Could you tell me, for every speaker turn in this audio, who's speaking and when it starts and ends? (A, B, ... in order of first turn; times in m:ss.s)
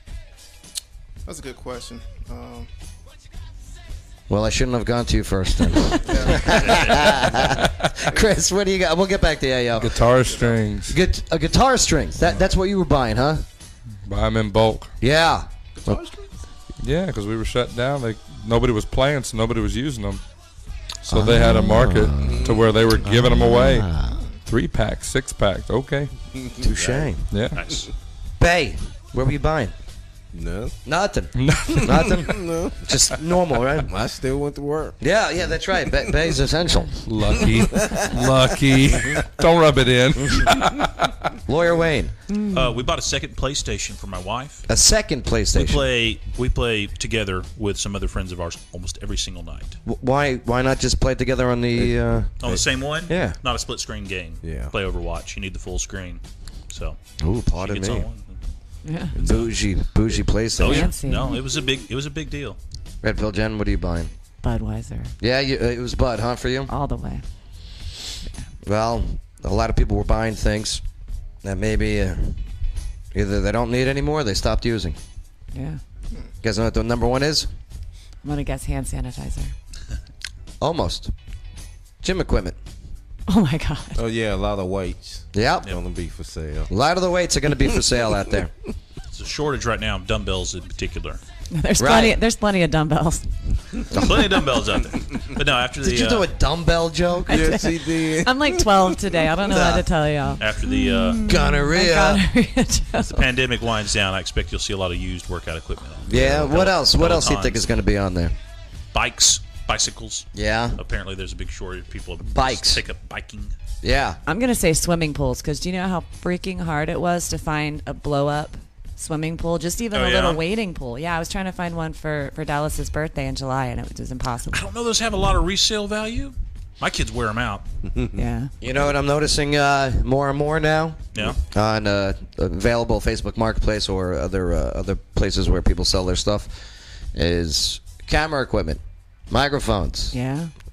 0:01.2-0:02.7 A
0:04.3-0:10.1 B
0:06.0-0:06.8 A
0:06.4-0:07.3 C
0:07.4-0:07.7 D
0:09.8-0:11.0 D
0:10.2-0:10.6 A
0:10.9-0:13.4 B
0:14.0-0:14.9 D
0:15.0-0:16.0 B
0:15.8-0:16.2 A
0:16.8-0:20.2 D
0:21.0-0:23.9 D
0:21.1-0:24.2 B
0:22.1-0:23.0 E
0:24.4-0:26.1 D
0:26.4-0:27.8 E
0:26.6-0:27.2 B
0:27.3-0:27.6 D
0:27.6-0:27.9 C
0:28.4-0:29.7 B
0:30.3-0:30.8 E
0:30.8-0:33.9 B
0:31.3-0:32.2 D
0:31.9-0:32.8 E
0:33.8-0:35.0 E
0:35.0-0:37.0 B
0:35.9-0:36.2 E
0:37.0-0:41.2 D
0:37.3-0:38.5 E
0:40.2-0:40.5 B
0:41.5-0:42.1 B
0:42.3-0:42.6 E
0:42.5-0:44.6 C
0:44.7-0:45.9 B
0:45.5-0:49.8 C
0:49.8-0:52.5 B
0:51.7-0:52.6 E
0:52.4-0:57.0 C
0:53.1-0:53.4 B
0:54.4-0:54.7 E
0:57.2-0:58.1 B
0:57.6-0:58.4 C
0:58.8-0:59.1 F
0:59.2-1:00.9 B
0:59.2-0:59.6 C
1:00.6-1:02.6 C
1:00.6-1:01.4 F
1:03.0-1:04.1 B
1:04.4-1:05.1 F
1:05.2-1:06.7 B
1:06.7-1:07.2 F
1:08.6-1:10.8 B
1:11.4-1:12.4 B
1:13.1-1:15.0 B
1:15.5-1:15.8 F
1:16.4-1:17.5 B
1:18.2-1:19.5 F
1:20.6-1:21.1 B
1:22.0-1:22.6 B
1:23.3-1:24.0 F
1:23.9-1:26.7 E
1:25.3-1:25.7 B
1:26.7-1:28.5 B
1:29.1-1:31.2 C
1:31.5-1:33.3 F
1:31.8-1:32.2 B
1:33.9-1:34.3 B
1:33.9-1:36.3 C
1:35.8-1:37.5 B
1:37.3-1:39.2 E
1:37.3-1:43.2 F
1:39.4-1:39.9 B
1:40.4-1:41.2 C
1:41.2-1:42.2 B
1:43.0-1:47.6 C
1:46.1-1:48.3 B
1:48.9-1:53.5 C
1:50.3-1:50.8 B
1:52.2-1:52.8 B
1:53.8-1:54.2 B
1:54.3-2:04.6 F
1:59.9-2:00.4 C
2:04.5-2:07.6 C
2:07.9-2:08.2 E
2:08.2-2:08.5 F
2:08.6-2:20.1 B
2:11.1-2:11.4 C
2:20.1-2:20.5 F